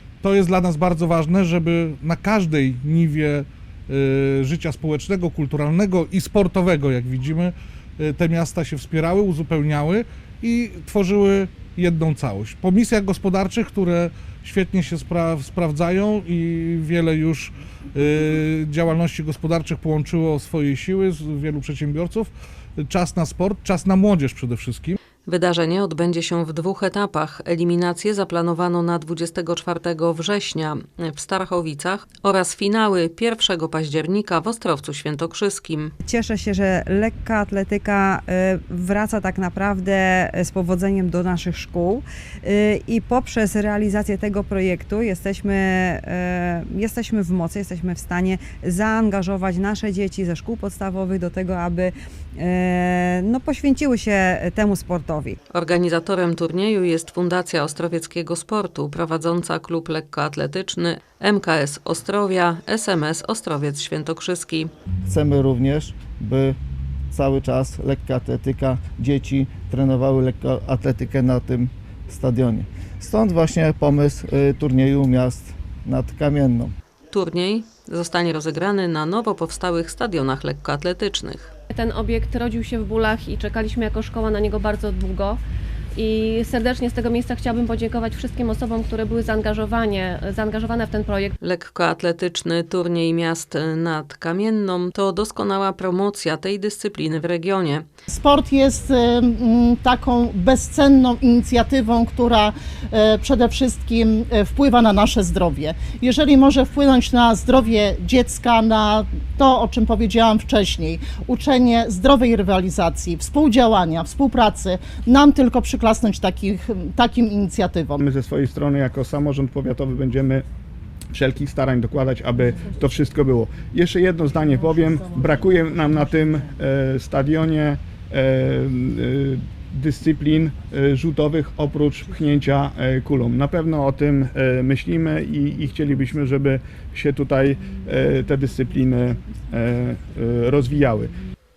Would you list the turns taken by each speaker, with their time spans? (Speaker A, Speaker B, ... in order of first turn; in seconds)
Speaker A: 0.2-22.3, 22.8-25.0
Speaker B: 25.2-35.9, 55.5-64.7, 77.1-81.5, 91.4-97.8
Speaker C: 36.0-55.4
Speaker D: 65.0-66.6, 67.1-76.7
Speaker E: 81.7-85.4, 86.0-91.3
Speaker F: 98.1-118.0
Speaker G: 118.0-120.4, 121.1-141.1